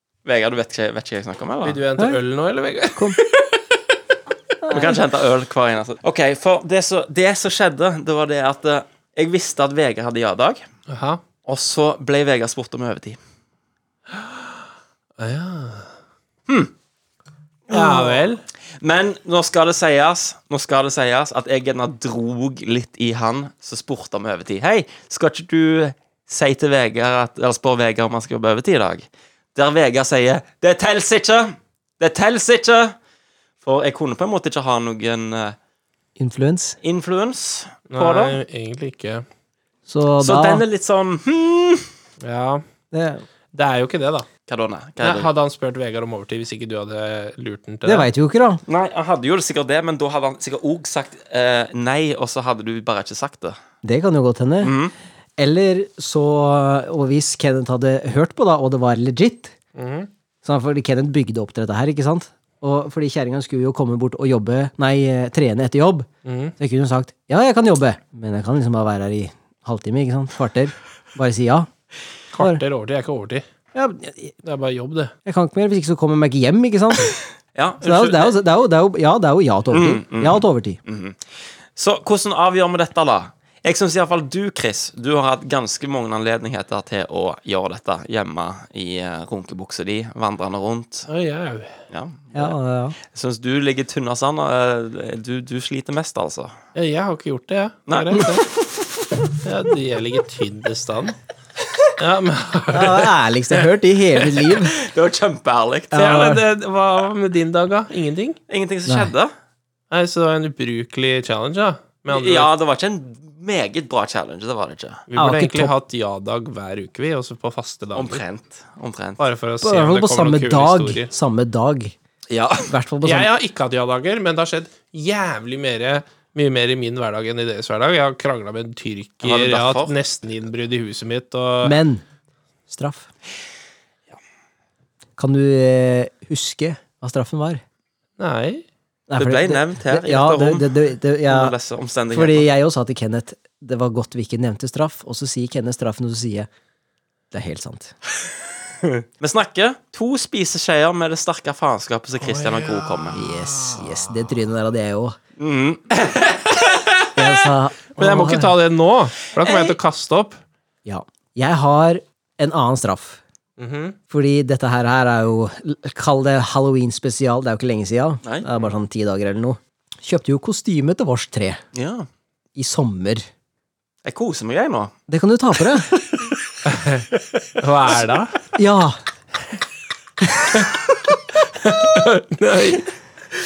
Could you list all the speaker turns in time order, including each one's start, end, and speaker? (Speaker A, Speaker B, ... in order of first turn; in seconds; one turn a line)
Speaker A: 0.2-1.8
Speaker B: 1.6-3.8
Speaker C: 4.6-5.0
Speaker A: 4.7-10.6
Speaker B: 10.9-11.2
Speaker A: 11.5-13.2
Speaker B: 14.2-14.5
Speaker B: 15.2-15.9
Speaker A: 16.5-16.7
Speaker A: 17.7-18.2
Speaker B: 17.7-18.4
Speaker A: 18.8-33.0
Speaker A: 33.6-35.6
Speaker C: 36.2-36.8
Speaker A: 36.8-38.4
Speaker B: 37.9-39.2
Speaker C: 39.9-40.6
Speaker A: 40.2-41.9
Speaker B: 42.2-42.6
Speaker C: 42.9-43.2
Speaker B: 43.5-44.3
Speaker A: 44.5-45.3
Speaker B: 45.0-48.1
Speaker C: 47.9-48.6
Speaker A: 48.7-53.6
Speaker C: 53.8-54.8
Speaker A: 54.6-54.9
Speaker C: 55.4-59.5
Speaker B: 59.8-60.1
Speaker C: 60.4-71.7
Speaker B: 66.2-66.5
Speaker B: 72.3-73.5
Speaker C: 72.4-72.6
Speaker C: 73.7-74.4
Speaker B: 74.4-75.1
Speaker C: 75.2-77.2
Speaker A: 77.5-78.3
Speaker C: 77.8-80.8
Speaker A: 79.7-91.1
Speaker B: 91.1-91.8
Speaker A: 91.9-92.6
Speaker C: 92.3-93.0
Speaker A: 93.1-96.5
Speaker B: 96.8-98.5
Speaker A: 97.9-98.9
Speaker B: 99.4-101.2
Speaker B: 102.0-103.1
Speaker C: 102.7-104.8
Speaker A: 104.5-106.1
Speaker C: 105.9-106.4
Speaker B: 106.0-108.4
Speaker A: 108.5-109.3
Speaker C: 108.9-109.1
Speaker B: 109.9-112.5
Speaker A: 112.1-115.0
Speaker B: 115.1-118.2
Speaker C: 115.2-115.7
Speaker A: 118.0-119.2
Speaker B: 119.2-121.1
Speaker C: 119.6-122.0
Speaker A: 122.3-122.7
Speaker C: 122.7-123.3
Speaker B: 123.0-131.8
Speaker A: 129.2-129.9
Speaker C: 131.6-132.0
Speaker C: 132.7-133.1
Speaker C: 135.2-137.6
Speaker B: 138.2-138.7
Speaker C: 139.1-141.5
Speaker A: 139.2-142.5
Speaker C: 142.1-146.5
Speaker C: 147.3-147.9
Speaker A: 148.9-153.3
Speaker B: 152.2-153.8
Speaker C: 153.1-155.2
Speaker A: 155.4-156.6
Speaker B: 156.7-157.1
Speaker C: 157.2-158.5
Speaker B: 158.0-160.4
Speaker A: 159.4-159.8
Speaker C: 160.8-163.2
Speaker B: 163.6-164.0
Speaker C: 164.1-171.6
Speaker A: 171.7-172.1
Speaker C: 172.6-173.3
Speaker A: 174.1-174.9
Speaker C: 175.1-176.1
Speaker B: 176.6-178.4
Speaker C: 178.6-179.0
Speaker B: 180.4-182.9